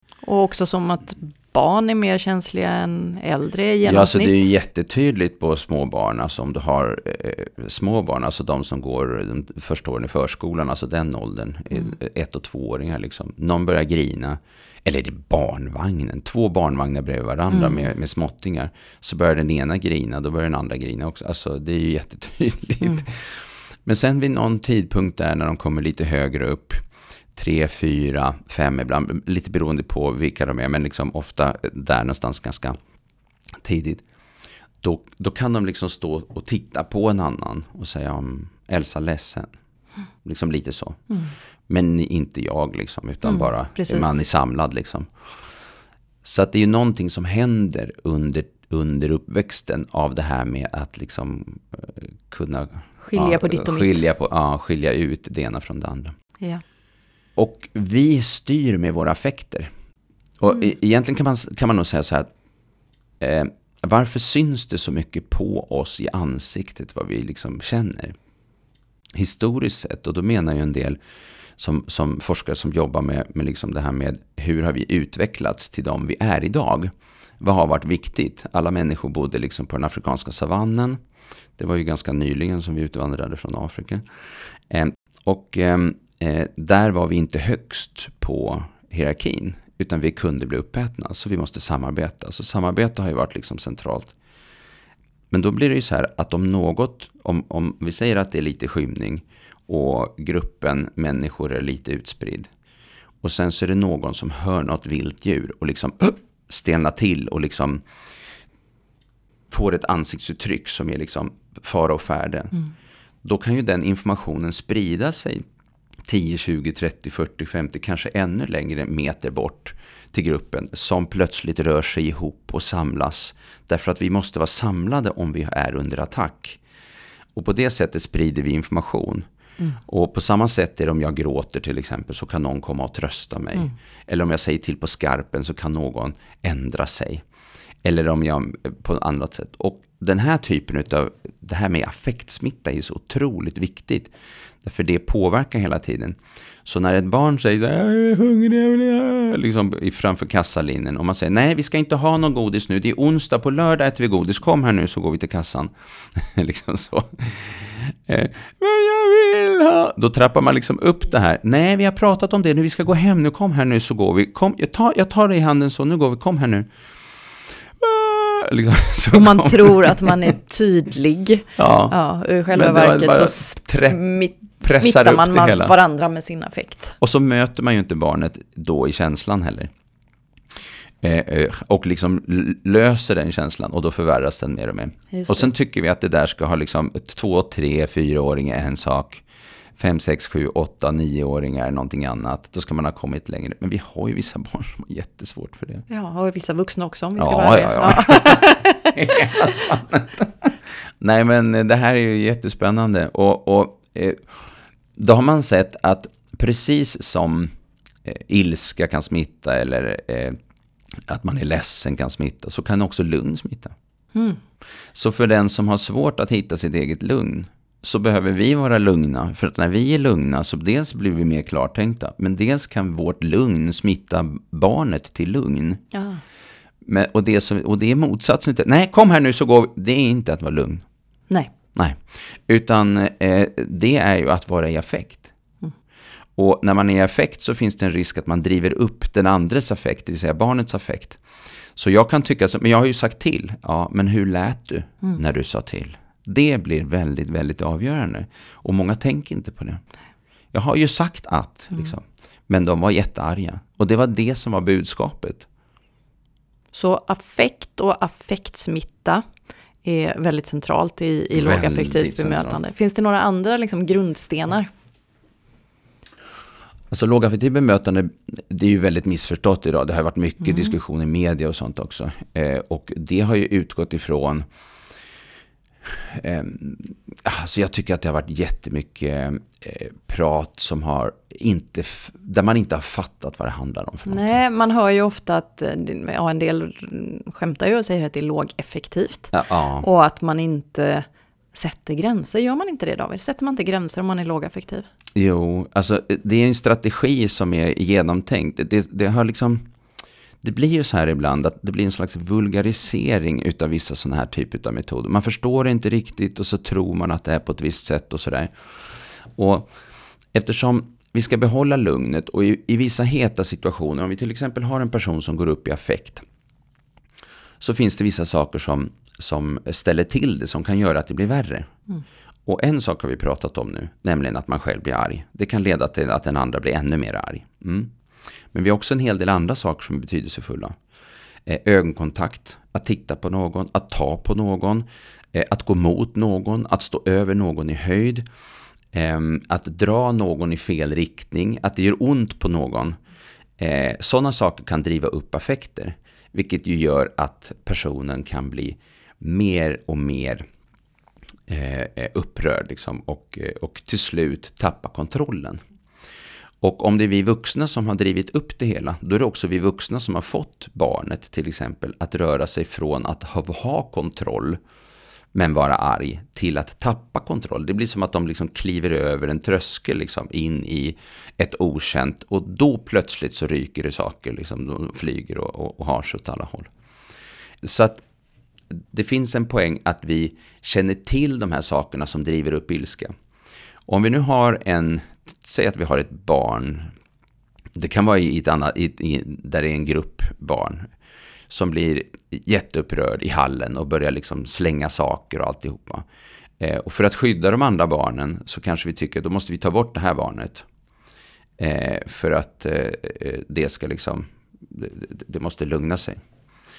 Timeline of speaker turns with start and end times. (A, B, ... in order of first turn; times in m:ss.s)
0:00.2-0:04.5 A
0:03.8-0:26.8 B
0:17.5-0:17.8 A
0:27.3-0:32.8 B
0:33.6-0:34.0 B
0:34.8-0:39.5 B
0:40.2-0:41.1 B
0:41.7-0:45.1 B
0:43.2-0:44.2 A
0:46.2-0:56.1 B
0:53.0-0:54.0 A
0:57.4-0:59.7 B
1:00.4-1:02.3 B
1:03.2-1:08.2 B
1:09.2-1:11.0 B
1:11.6-1:21.0 B
1:21.6-1:24.0 B
1:24.7-1:34.1 B
1:35.3-1:42.5 B
1:43.2-1:47.8 B
1:49.5-1:52.6 B
1:53.2-1:55.4 B
1:56.0-2:06.6 B
2:07.3-2:09.2 B
2:09.9-2:17.2 B
2:17.8-2:46.7 B
2:47.8-2:50.3 B
2:49.1-2:57.0 A
2:51.6-2:52.0 B
2:52.5-2:55.7 B
2:57.0-2:59.7 B
3:01.0-3:09.2 B
3:05.1-3:05.5 A
3:09.8-3:15.8 B
3:15.9-3:19.2 A
3:17.2-3:24.2 B
3:25.0-3:27.5 B
3:28.0-3:30.4 B
3:31.1-3:33.7 B
3:34.1-3:34.4 A
3:34.9-3:45.8 B
3:45.9-3:46.2 A
3:46.8-3:50.8 B
3:51.7-3:55.3 B
3:56.4-4:01.2 B
4:01.8-4:09.8 B
4:10.5-4:15.5 B
4:16.7-4:19.2 A
4:19.8-4:24.7 A
4:21.3-4:22.6 B
4:26.9-4:34.4 B
4:30.4-4:30.7 A
4:36.0-4:44.4 B
4:44.1-4:54.8 A
4:49.3-4:49.9 B
4:55.2-4:59.7 B
5:00.4-5:08.5 B
5:09.4-5:09.7 B
5:10.3-5:16.2 B
5:17.6-5:21.7 B
5:22.4-5:27.9 B
5:28.5-5:30.7 B
5:31.4-5:38.2 B
5:38.9-5:43.0 B
5:43.6-5:50.4 B
5:51.5-5:55.6 B
5:56.6-6:04.6 B
6:05.3-6:16.7 B
6:17.6-6:18.0 B
6:18.7-6:23.1 B
6:23.9-6:26.9 B
6:27.7-6:30.9 B
6:31.5-6:36.0 B
6:36.6-6:40.6 B
6:41.6-6:46.2 B